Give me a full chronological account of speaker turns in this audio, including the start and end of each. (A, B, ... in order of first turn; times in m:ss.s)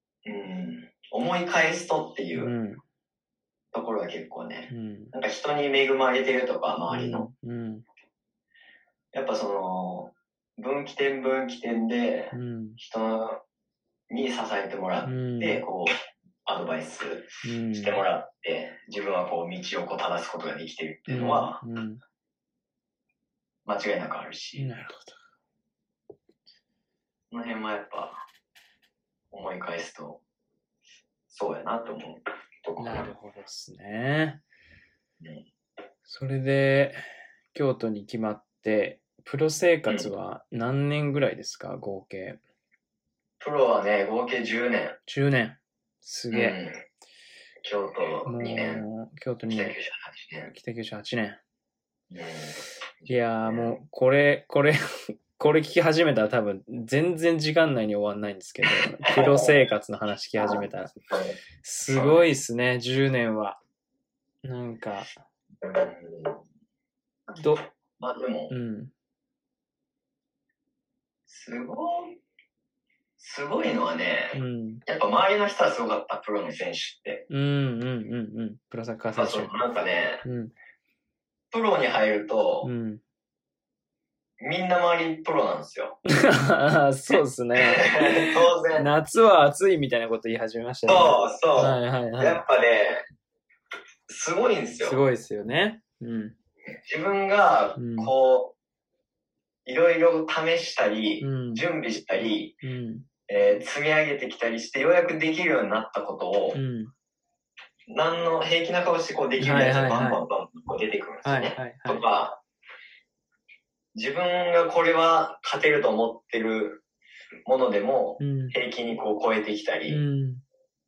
0:00.2-0:02.5 A
0:02.3-0:02.8 B
0:03.7-0:07.3 A
0:04.7-0:05.1 B
0:06.9-0:07.8 B
0:09.1-0:13.4 A
0:12.3-0:12.8 B
0:14.1-0:15.9 A
0:15.0-0:15.6 B
0:16.5-0:21.6 A
0:17.4-0:18.0 B
0:21.1-0:22.0 B
0:23.6-0:24.7 A
0:24.6-0:25.2 B
0:27.3-0:28.2 A
0:29.3-0:30.2 A
0:31.3-0:33.1 A
0:32.8-0:34.4 B
0:35.2-0:35.5 A
0:36.1-0:37.0 B
0:37.5-0:42.4 B
0:43.4-0:45.0 A
0:45.1-0:46.6 B
0:46.3-0:46.8 A
0:47.6-0:48.9 A
0:48.2-0:49.8 B
0:49.5-0:50.5 A
0:50.5-0:51.4 B
0:52.1-0:53.8 A
0:53.1-1:01.0 B
0:58.7-0:59.5 A
1:00.4-1:01.4 A
1:01.6-1:03.6 B
1:01.9-1:02.2 A
1:04.4-1:05.1 B
1:05.6-1:06.4 A
1:07.4-1:07.6 B
1:08.0-1:08.6 A
1:08.5-1:08.9 B
1:11.3-1:12.2 A
1:13.2-1:17.3 A
1:14.3-1:14.8 B
1:17.3-1:19.5 B
1:19.2-1:20.2 A
1:20.2-1:20.5 B
1:21.5-1:22.7 A
1:22.6-1:23.0 B
1:24.4-1:26.0 A
1:26.1-1:32.4 B
1:27.6-1:28.9 A
1:30.9-1:33.0 A
1:34.1-1:35.0 A
1:34.8-1:36.4 B
1:36.8-1:38.6 A
1:37.8-1:38.1 B
1:39.6-1:42.6 A
1:41.2-1:41.6 B
1:42.6-1:43.1 B
1:43.3-1:46.6 A
1:46.5-1:46.9 B
1:47.9-1:52.4 A
1:49.4-1:50.2 B
1:51.2-1:52.1 B
1:53.9-1:56.8 A
1:57.5-2:00.0 A
1:58.2-1:58.6 B
1:59.9-2:00.4 B